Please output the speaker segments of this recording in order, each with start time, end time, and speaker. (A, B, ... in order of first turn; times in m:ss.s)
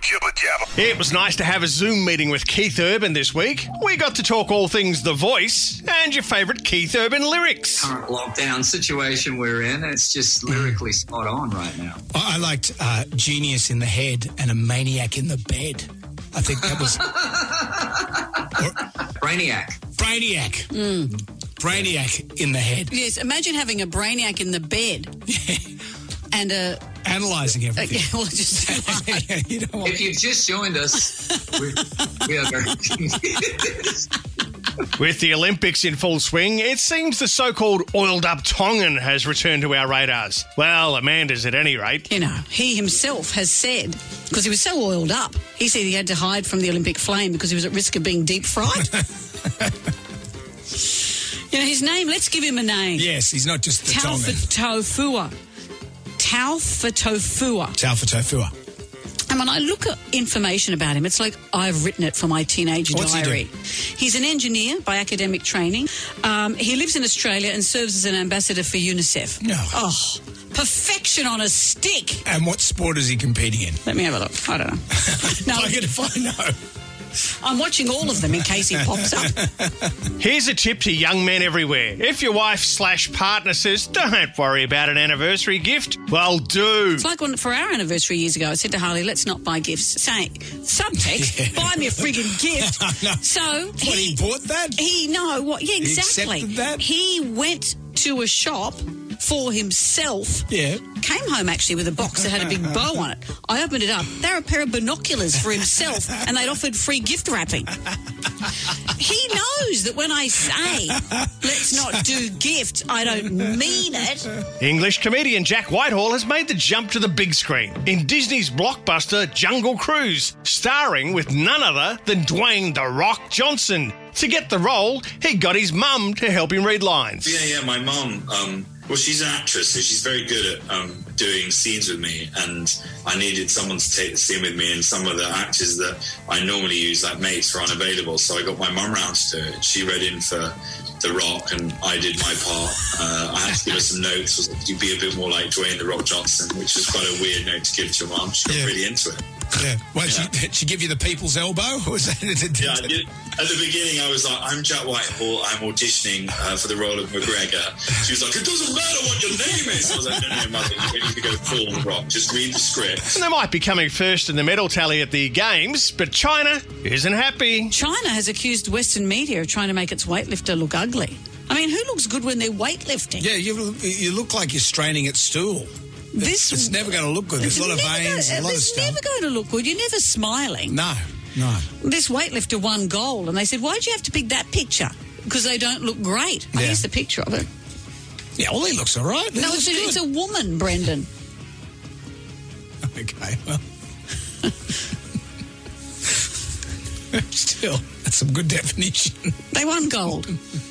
0:00.7-0:07.9 A
0:07.8-0:12.0 B
0:10.5-0:10.8 C
0:12.1-0:17.1 C
0:16.9-0:18.5 B
0:18.5-0:18.8 C
0:19.2-0:19.8 B
0:20.0-0:22.9 C
0:20.7-0:21.1 D
0:22.9-0:25.1 D
0:25.3-0:25.7 C
0:26.3-0:26.8 D
0:27.0-0:30.0 C
0:27.7-0:29.2 D
0:29.8-0:34.1 B
0:35.0-0:42.0 A
0:42.1-0:49.0 D
0:51.5-0:53.1 D
0:53.0-0:54.4 C
0:53.8-0:55.3 D
0:56.2-0:57.8 D
0:57.8-0:58.5 C
0:59.3-1:12.2 D
1:02.9-1:03.4 C
1:09.4-1:09.8 C
1:12.2-1:13.8 C
1:13.8-1:16.2 D
1:14.9-1:16.5 C
1:17.2-1:19.4 D
1:19.5-1:19.9 C
1:20.2-1:27.0 A
1:27.0-1:34.2 D
1:31.1-1:33.2 C
1:33.8-1:34.8 C
1:34.7-1:47.8 D
1:35.8-1:36.8 C
1:40.5-1:40.8 C
1:48.8-1:54.3 D
1:54.6-2:07.4 A
2:07.2-2:29.2 E
2:28.5-2:28.7 C
2:29.6-2:32.9 C
2:30.0-2:30.3 E
2:32.6-2:43.2 E
2:43.1-2:47.7 A
2:47.7-2:53.3 D
2:53.2-2:59.0 C
2:56.1-3:00.8 D
3:00.7-3:01.7 C
3:01.8-3:07.5 D
3:06.5-3:06.8 C
3:08.4-3:10.0 C
3:09.4-3:11.1 D
3:12.9-3:13.6 C
3:17.1-3:19.3 C
3:19.5-3:20.3 D